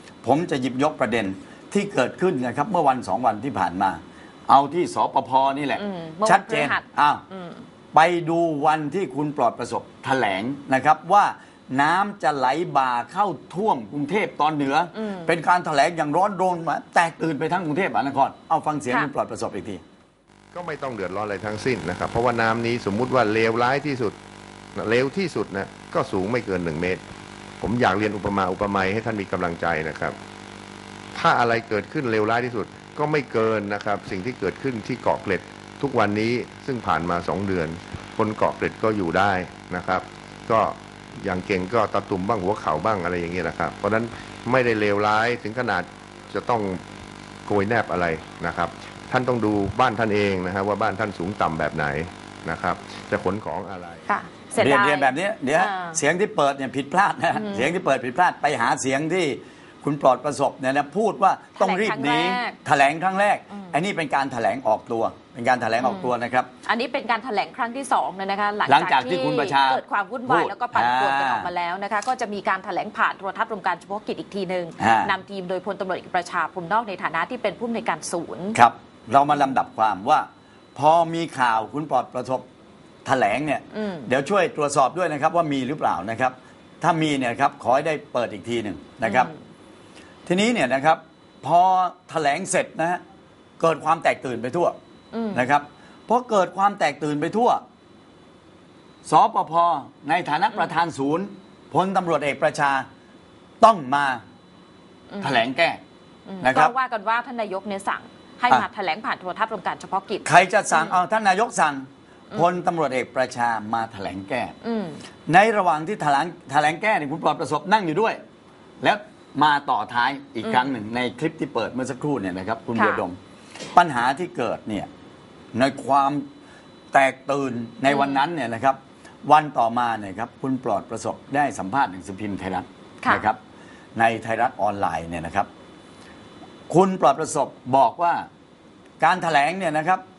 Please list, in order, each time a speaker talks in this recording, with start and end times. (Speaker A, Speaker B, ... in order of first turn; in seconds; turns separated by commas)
Speaker A: 0.2-7.2, Speaker B: 5.7-7.6, Speaker A: 7.9-19.8, Speaker B: 14.9-15.3, Speaker C: 20.5-24.1, Speaker C: 24.8-27.0, Speaker C: 27.6-30.1, Speaker C: 31.1-46.8, Speaker C: 47.5-54.1, Speaker B: 54.1-56.0, Speaker A: 54.6-66.5, Speaker B: 57.3-57.8, Speaker B: 61.6-62.5, Speaker B: 65.8-66.1, Speaker B: 66.6-78.6, Speaker A: 68.7-71.5, Speaker A: 74.8-75.1, Speaker A: 78.5-82.5, Speaker A: 83.0-89.3, Speaker B: 83.7-84.1, Speaker B: 89.0-89.3, Speaker A: 90.2-93.0, Speaker A: 93.6-94.8, Speaker B: 95.1-95.4, Speaker A: 95.3-97.6, Speaker A: 99.0-102.9, Speaker A: 103.6-104.2, Speaker B: 105.1-105.4, Speaker A: 105.2-105.8, Speaker B: 106.2-111.0, Speaker A: 106.4-106.7, Speaker A: 110.2-114.5, Speaker B: 114.6-115.0, Speaker A: 115.3-118.2, Speaker A: 118.8-123.2, Speaker B: 122.7-123.0, Speaker A: 123.7-124.9, Speaker A: 125.5-126.2, Speaker A: 126.9-133.4, Speaker B: 127.9-128.2, Speaker B: 133.0-133.3, Speaker A: 133.9-135.5, Speaker A: 136.7-138.3, Speaker A: 139.0-140.0